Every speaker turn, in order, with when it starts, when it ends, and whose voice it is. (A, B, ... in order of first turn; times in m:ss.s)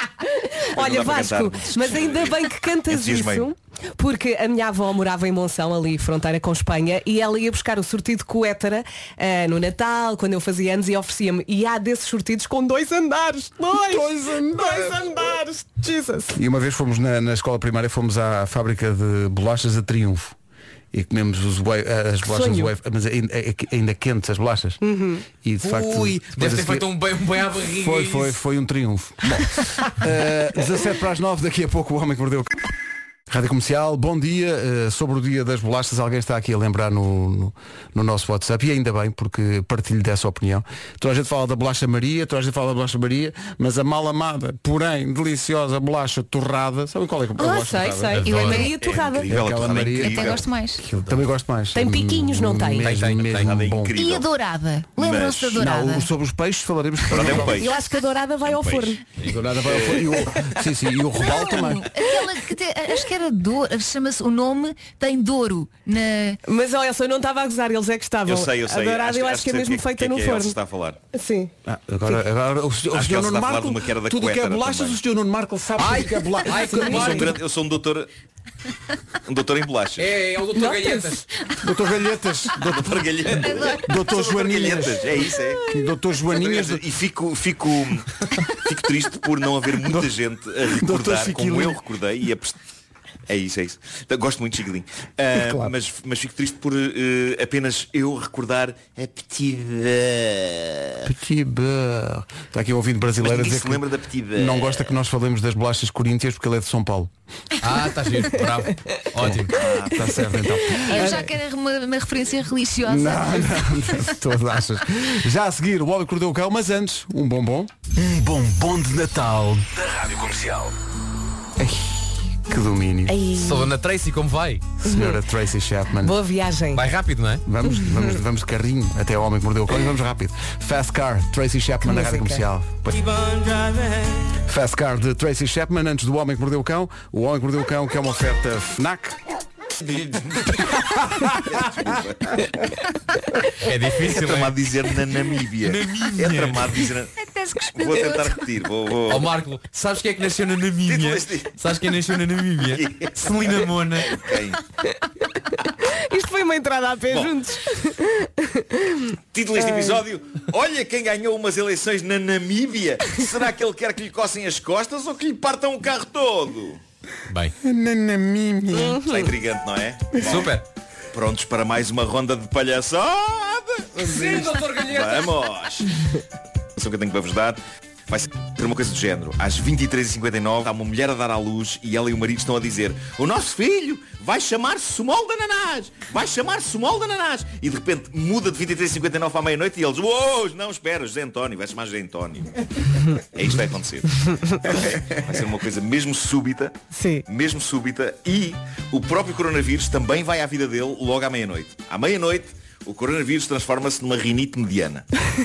0:00.3-0:16.4 A
0:00.8-0:03.5 B
0:13.7-0:15.3 C
0:16.4-0:20.4 C
0:20.9-0:24.8 C
0:22.3-0:22.7 A
0:24.8-0:25.2 A
0:25.4-0:26.9 C
0:25.6-0:28.4 D
0:27.8-0:32.7 C
0:33.3-0:48.2 C
0:47.4-0:49.3 A
0:48.2-0:48.7 D
0:48.3-0:48.8 E
0:48.8-0:50.4 B
0:49.3-0:53.9 C
0:50.0-0:50.8 E
0:51.7-0:52.9 A
0:52.8-0:53.8 D
0:53.4-0:54.3 B
0:53.9-0:56.1 E
0:55.0-0:55.6 B
0:55.6-0:57.7 C
0:57.1-0:57.8 B
0:57.5-0:59.0 A
0:58.4-0:59.0 B
0:59.3-1:01.9 C
0:59.6-1:00.2 B
1:01.2-1:06.4 E
1:06.5-1:10.6 A
1:08.3-1:11.0 B
1:11.1-1:11.5 A
1:11.7-1:17.3 C
1:12.9-1:15.0 B
1:15.8-1:17.4 D
1:16.9-1:18.1 B
1:19.3-1:20.1 B
1:20.0-1:21.3 D
1:20.6-1:21.2 A
1:21.6-1:26.8 C
1:22.6-1:25.6 B
1:23.5-1:23.8 E
1:26.3-1:28.1 B
1:28.6-1:32.6 B
1:29.8-1:30.1 C
1:30.6-1:31.8 C
1:33.3-1:41.1 B
1:35.4-1:35.7 C
1:41.0-1:47.1 C
1:43.2-1:44.9 B
1:47.6-1:49.6 D
1:49.2-1:51.0 C
1:49.5-1:50.2 B
1:50.7-1:53.6 E
1:50.8-1:51.3 A
1:52.9-2:00.7 C
2:01.6-2:03.2 C
2:03.1-2:03.7 A
2:03.4-2:04.7 D
2:04.8-2:05.2 A
2:04.8-2:06.1 C
2:06.0-2:06.8 A
2:06.8-2:07.4 D
2:07.5-2:13.1 C
2:11.8-2:12.4 A
2:14.5-2:19.2 C
2:19.8-2:20.6 B
2:21.2-2:22.6 B
2:23.6-2:24.9 D
2:24.0-2:27.1 B
2:25.6-2:26.8 D
2:27.2-2:28.5 E
2:27.7-2:29.3 B
2:29.1-2:34.2 D
2:30.8-2:31.5 B
2:32.7-2:34.6 B
2:35.5-2:40.1 A
2:37.1-2:37.4 B
2:39.3-2:46.8 B
2:47.6-2:49.0 C
2:48.7-2:49.3 A
2:49.0-2:50.6 B
2:50.1-2:50.6 D
2:51.1-2:55.9 B
2:54.0-2:55.4 D
2:56.8-3:12.5 B
3:13.3-3:16.7 B
3:16.9-3:17.2 A
3:17.3-3:25.1 B